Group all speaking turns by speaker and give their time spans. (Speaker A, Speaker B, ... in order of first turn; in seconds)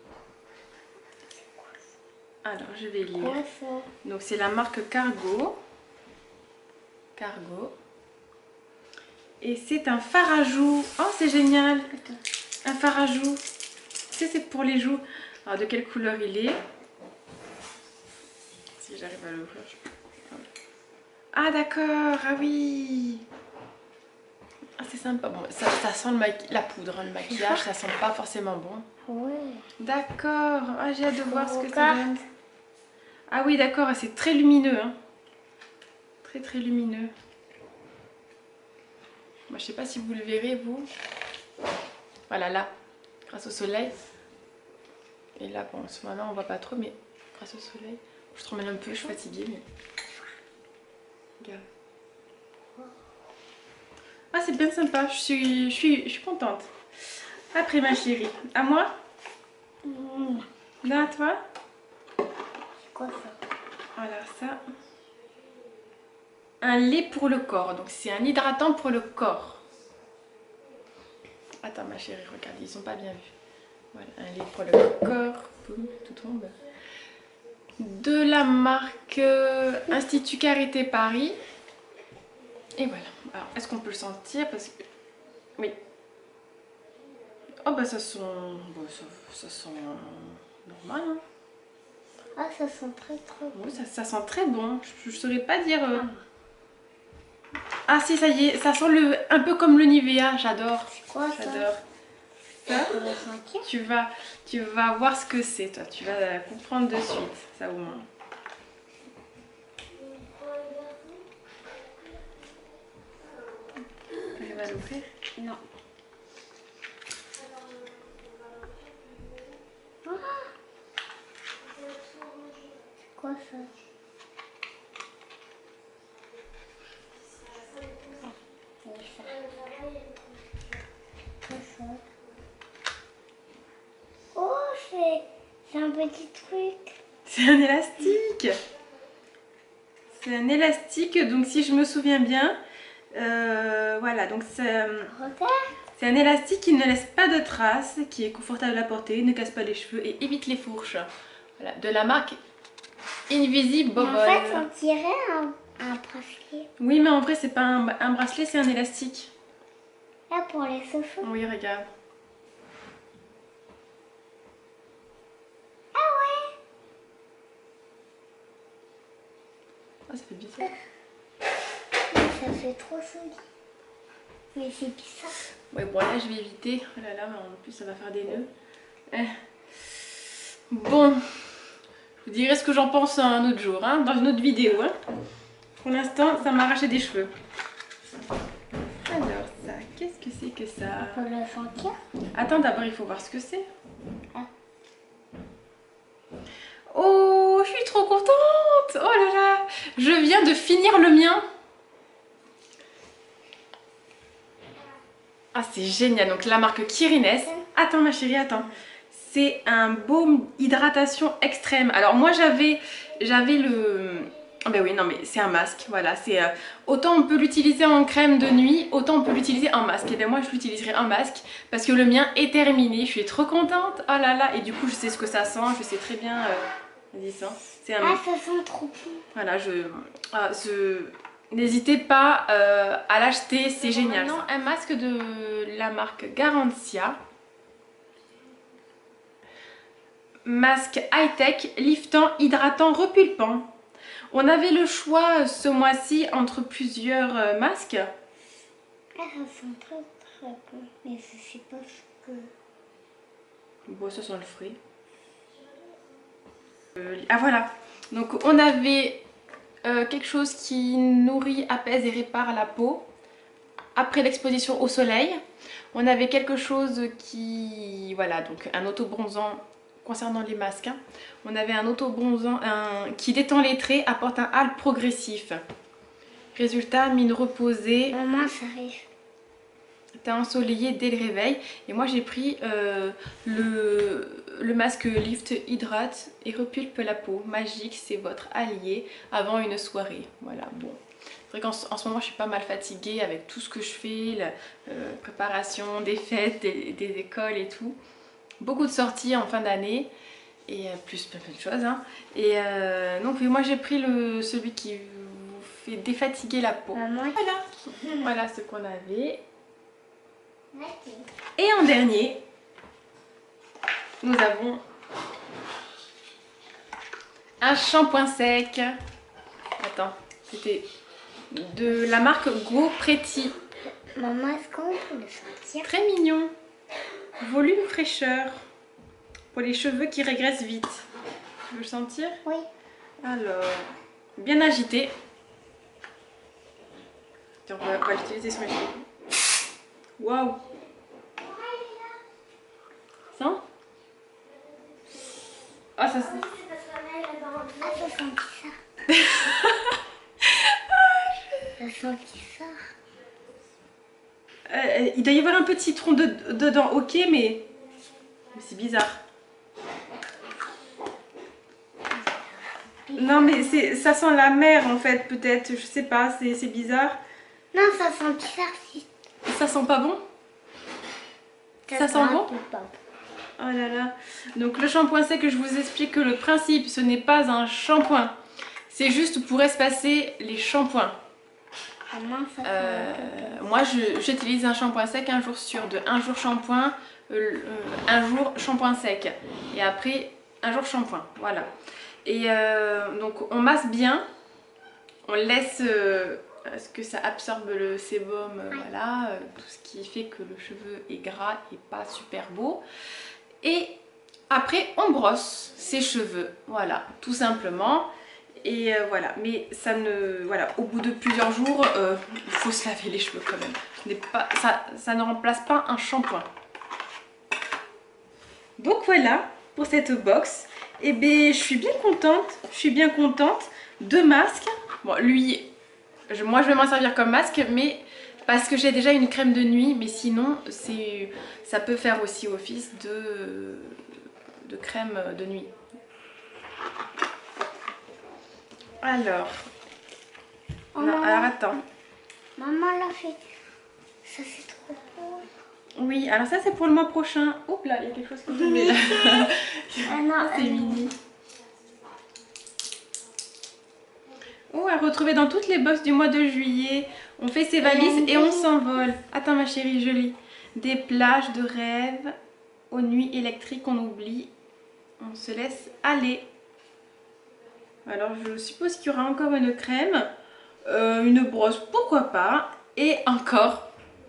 Speaker A: 2.4-3.4, 4.0-5.6, 7.2-7.7, 9.4-11.9, 12.6-13.4, 14.1-16.6, 18.8-19.8, 21.3-23.2, 24.8-28.9, 29.8-32.2, 33.3-35.0, 36.2-37.1, 39.5-40.9, 42.3-42.7, 43.3-43.9, 45.4-49.6, 54.3-56.7, 57.5-58.9, 60.8-61.4, 64.0-64.6, 66.6-69.6, 71.6-73.3, 73.9-76.5, 77.8-81.4, 82.8-84.7, 87.6-91.2, 93.5-96.1, 97.9-101.8, 102.6-103.0, 103.6-108.1, 114.4-115.1, 137.2-138.6, 140.1-142.6, 143.1-145.1, 145.9-152.4, 153.3-154.7, 156.8-159.3, 161.2-161.8, 170.1-170.7, 175.7-178.5, 180.7-181.4, 182.2-184.9, 185.8-187.3, 189.1-191.3, 192.3-193.7, 196.9-201.4, 205.5-228.2, 229.3-237.2, 240.4-243.7, 244.3-248.1, 253.9-254.8, 256.9-259.2, 259.8-263.0, 263.9-265.4, 265.9-275.6, 276.5-278.1, 280.2-297.9, 298.6-300.1, 300.7-309.4, 311.6-312.4, 314.2-314.8, 317.6-319.0, 319.8-320.9, 321.5-323.5, 325.8-326.5, 327.4-328.6, 329.5-331.1, 331.7-332.4, 333.2-335.1, 337.6-339.0, 340.2-340.6, 343.3-343.6, 346.0-346.8, 349.1-351.7, 354.7-357.7, 358.5-359.2, 363.1-367.2, 369.4-370.2, 371.9-372.5, 373.6-378.3, 378.9-381.2, 382.6-391.7, 392.2-394.2, 395.2-402.8, 403.6-404.0, 404.5-408.1, 408.6-416.5, 418.8-425.7, 426.3-434.0, 434.6-435.7, 439.0-439.6, 441.0-441.8, 445.9-451.1, 454.7-462.3, 462.9-464.5, 465.2-466.4, 468.0-470.3, 470.8-473.9
Speaker B: 3.2-3.9, 11.9-12.2, 27.3-27.6, 29.1-29.6, 31.1-32.2, 59.8-60.4, 62.9-63.4, 92.3-93.7, 95.9-96.2, 100.9-101.7, 102.7-103.7, 110.2-111.1, 115.3-115.6, 120.0-120.5, 123.2-123.7, 128.8-130.0, 131.4-132.0, 134.3-137.0, 145.1-145.7, 154.0-156.7, 160.3-161.3, 165.9-166.6, 172.1-173.4, 174.5-175.4, 191.0-191.9, 228.0-229.2, 249.2-252.5, 278.1-279.1, 306.9-307.4, 308.0-308.3, 310.7-311.3, 324.1-325.9, 341.5-342.1, 347.4-348.8, 351.8-352.9, 362.1-364.1, 367.7-369.1, 371.9-373.0, 382.1-383.7, 440.9-441.8, 442.6-443.4, 444.2-445.5, 448.5-449.5, 450.1-451.0, 457.8-458.7